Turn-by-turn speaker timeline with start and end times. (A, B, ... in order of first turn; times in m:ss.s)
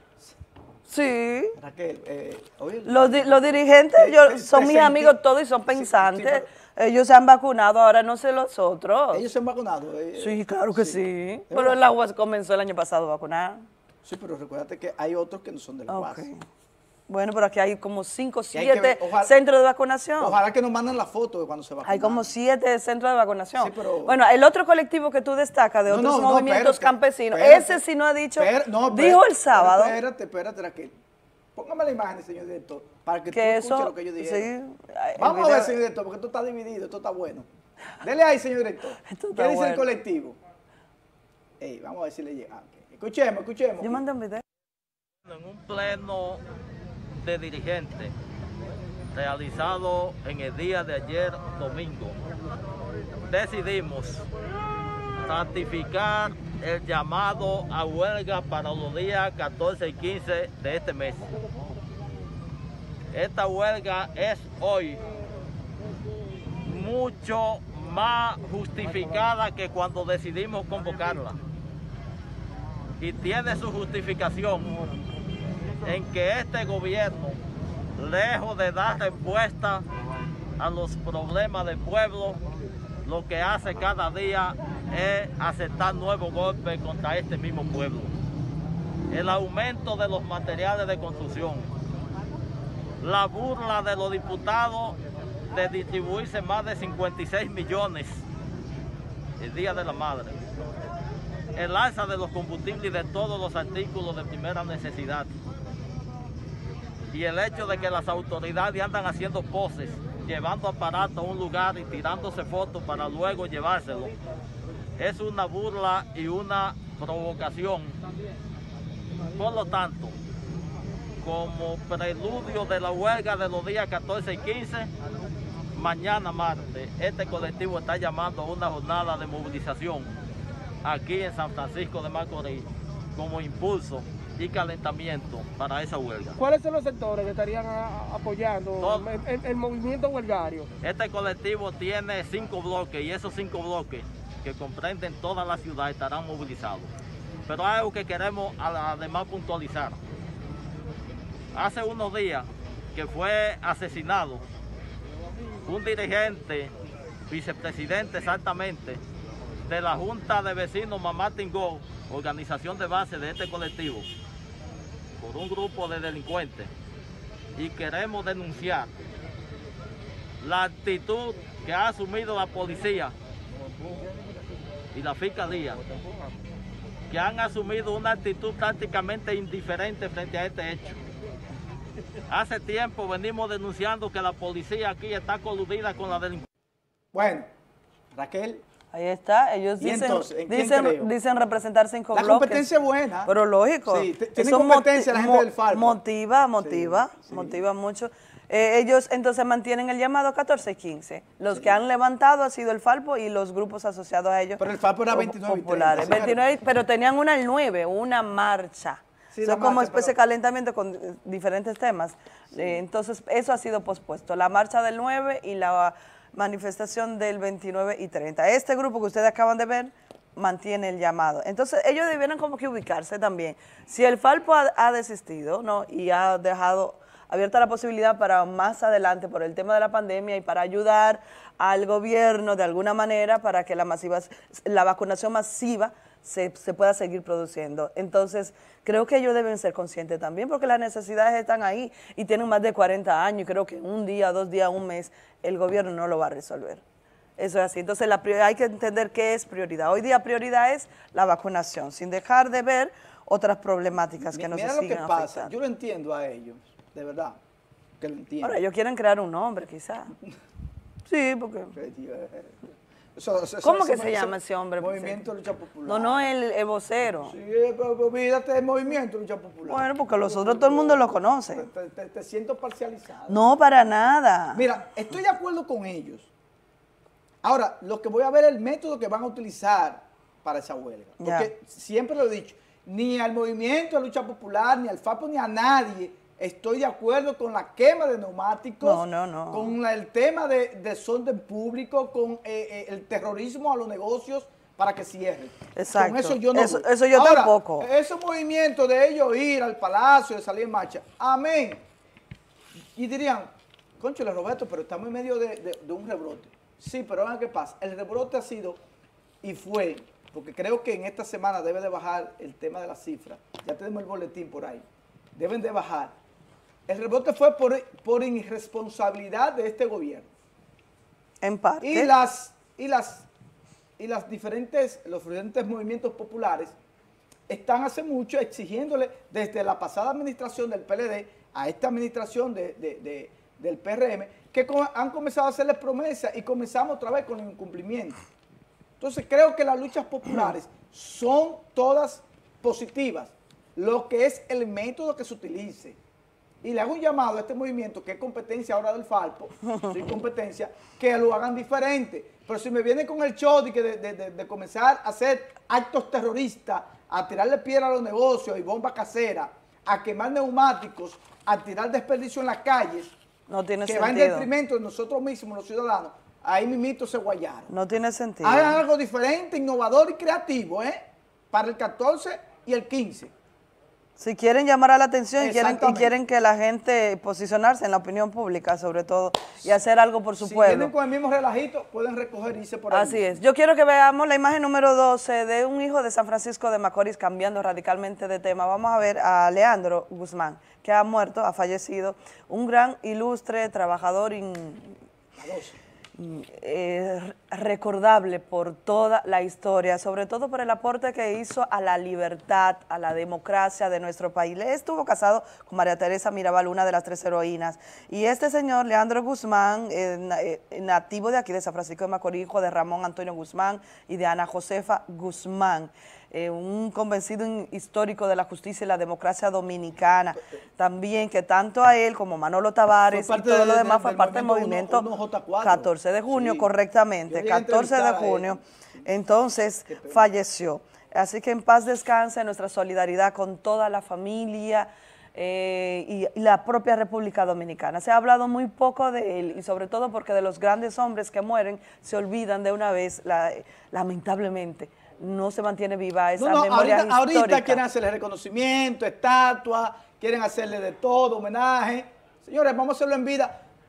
0:00.9-0:01.6 A
0:01.6-0:03.4 B
0:02.8-0:09.2 A
0:04.0-0:05.2 B
0:05.7-0:06.5 B
0:09.1-0:11.8 B
0:10.2-0:13.6 A
0:14.0-0:16.2 B
0:15.9-0:16.4 A
0:17.1-0:20.4 A
0:18.5-0:19.3 B
0:20.2-0:22.2 B
0:21.8-0:30.0 A
0:23.6-0:24.2 B
0:25.9-0:27.8 B
0:28.4-0:30.9 B
0:31.6-0:34.5 B
0:33.3-0:35.7 A
0:35.2-0:37.5 B
0:38.0-0:40.4 B
0:39.0-0:39.8 A
0:41.6-0:44.0 B
0:43.8-0:44.4 A
0:45.2-0:46.4 C
0:47.2-0:48.1 C
0:49.1-0:52.2 C
0:53.3-0:54.3 C
0:55.2-1:01.4 C
1:03.1-1:05.0 C
1:06.6-1:11.4 C
1:13.0-1:14.8 C
1:15.8-1:17.4 C
1:18.0-1:19.8 C
1:20.6-1:22.4 C
1:23.0-1:28.1 C
1:29.1-1:31.7 C
1:33.0-1:35.0 C
1:35.5-1:38.2 C
1:39.4-1:40.4 C
1:41.5-1:45.3 C
1:47.1-1:54.2 C
1:55.0-1:58.0 C
1:59.3-2:00.2 C
2:01.2-2:04.9 C
2:05.7-2:10.1 C
2:10.8-2:16.4 C
2:16.4-2:20.7 D
2:18.8-2:19.1 C
2:20.8-2:26.9 C
2:27.5-2:30.0 C
2:31.5-2:34.4 C
2:35.6-2:36.7 C
2:37.3-2:39.0 C
2:39.7-2:44.1 C
2:45.2-2:46.7 C
2:47.6-2:48.9 C
2:50.4-2:53.1 C
2:54.9-2:55.8 C
2:57.1-3:01.0 C
3:02.3-3:06.4 C
3:07.1-3:07.5 B
3:08.1-3:08.6 B
3:08.9-3:12.7 A
3:09.8-3:11.1 B
3:12.1-3:13.3 B
3:13.2-4:06.8 A
3:13.8-3:16.0 B
3:16.6-3:17.6 B
3:21.5-3:21.8 B
3:24.6-3:26.4 B
3:29.3-3:30.2 B
4:07.4-4:15.5 A
4:14.3-4:17.4 B
4:18.0-4:18.6 B
4:18.4-4:20.1 A
4:21.0-4:21.7 A
4:21.7-4:22.6 B
4:23.2-4:26.2 B
4:23.6-4:25.2 A
4:25.9-4:27.3 A
4:27.2-4:33.4 B
4:29.7-4:31.7 A
4:33.3-4:34.6 A
4:34.5-4:36.3 B
4:37.4-5:01.8 B
4:41.2-4:41.5 A
4:48.8-4:49.7 A
4:55.7-4:57.9 A
5:02.9-5:08.8 B
5:09.4-5:14.8 B
5:15.3-5:16.1 B
5:16.9-5:20.3 B
5:21.4-5:22.1 A
5:21.8-5:23.3 B
5:24.0-5:26.7 B
5:27.5-5:38.2 B
5:39.0-5:46.0 B
5:46.6-6:03.1 B
6:03.5-6:04.5 A
6:03.8-6:07.7 B
6:07.7-6:08.8 A
6:08.4-6:11.0 B
6:11.5-6:13.3 B
6:14.2-6:20.9 A
6:15.4-6:16.1 B
6:20.4-6:23.3 B
6:22.9-6:35.0 A
6:35.4-6:35.8 B
6:36.2-7:05.0 A
7:03.1-7:06.7 B
7:05.6-7:27.8 A
7:07.3-7:08.6 B
7:09.9-7:10.3 B
7:26.4-7:33.6 B